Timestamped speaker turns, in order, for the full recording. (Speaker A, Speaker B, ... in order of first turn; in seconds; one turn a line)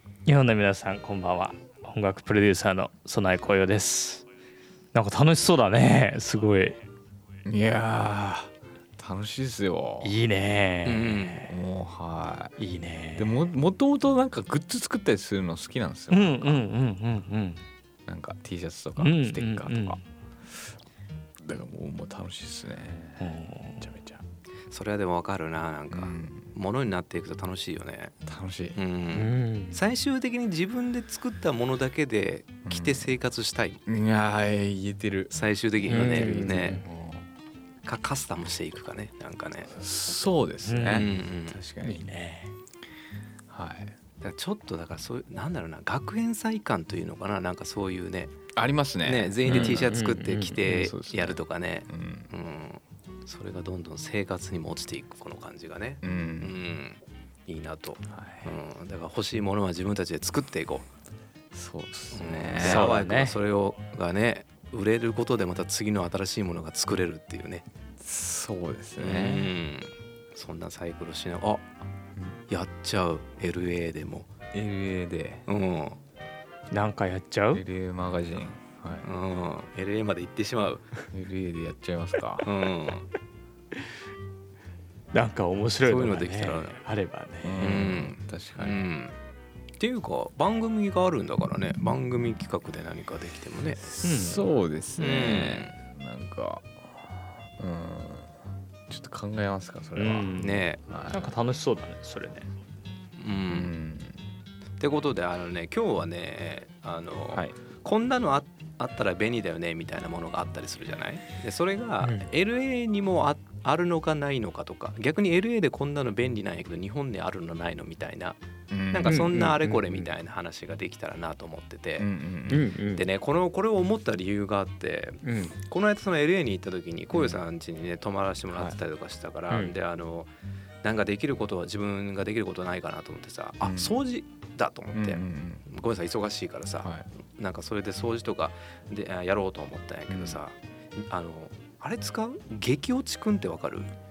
Speaker A: 0.2-4.2
Speaker A: 4.9-6.8
Speaker B: 7.4-10.2
Speaker A: 10.0-11.5
Speaker C: 10.8-11.5
Speaker B: 11.4-12.5
Speaker A: 12.6-13.4
Speaker B: 13.2-16.7
Speaker A: 16.1-17.6
Speaker B: 18.1-20.0
Speaker A: 19.0-20.0
Speaker B: 21.4-24.2
Speaker A: 23.2-23.9
Speaker C: 24.7-28.1
Speaker B: 25.9-26.5
Speaker B: 28.2-28.8
Speaker C: 28.7-33.8
Speaker A: 29.1-29.8
Speaker B: 32.6-33.1
Speaker B: 33.9-37.3
Speaker C: 35.3-36.8
Speaker A: 35.9-36.9
Speaker C: 37.8-39.8
Speaker B: 39.7-42.0
Speaker A: 40.6-41.1
Speaker C: 40.9-41.6
Speaker A: 41.8-42.5
Speaker B: 43.5-44.0
Speaker C: 44.2-48.4
Speaker B: 48.5-50.0
Speaker C: 49.0-60.9
Speaker A: 49.5-50.6
Speaker B: 50.6-52.3
Speaker B: 56.0-56.5
Speaker B: 58.1-58.6
Speaker B: 61.5-63.1
Speaker C: 62.1-67.6
Speaker A: 62.6-63.4
Speaker B: 68.0-69.5
Speaker C: 69.0-71.6
Speaker B: 72.2-72.4
Speaker C: 72.5-74.3
Speaker B: 74.5-75.4
Speaker C: 75.5-76.0
Speaker A: 76.7-77.6
Speaker B: 77.5-79.1
Speaker C: 79.0-80.9
Speaker B: 81.1-82.5
Speaker C: 82.4-83.1
Speaker A: 85.1-87.9
Speaker C: 85.8-86.8
Speaker B: 87.4-88.8
Speaker C: 87.6-89.2
Speaker C: 89.8-93.8
Speaker B: 93.8-98.3
Speaker A: 94.0-94.4
Speaker C: 95.0-95.7
Speaker B: 98.9-101.3
Speaker A: 100.0-102.5
Speaker C: 100.4-100.8
Speaker C: 103.2-103.7
Speaker B: 103.5-104.2
Speaker C: 104.8-118.4
Speaker B: 118.7-119.5
Speaker C: 118.9-122.1
Speaker A: 119.0-119.8
Speaker B: 122.0-122.7
Speaker A: 122.5-123.0
Speaker C: 122.9-130.3
Speaker A: 125.2-125.5
Speaker B: 127.1-127.4
Speaker B: 128.5-128.8
Speaker C: 130.8-143.9
Speaker B: 133.6-134.0
Speaker B: 134.9-135.6
Speaker B: 140.1-140.4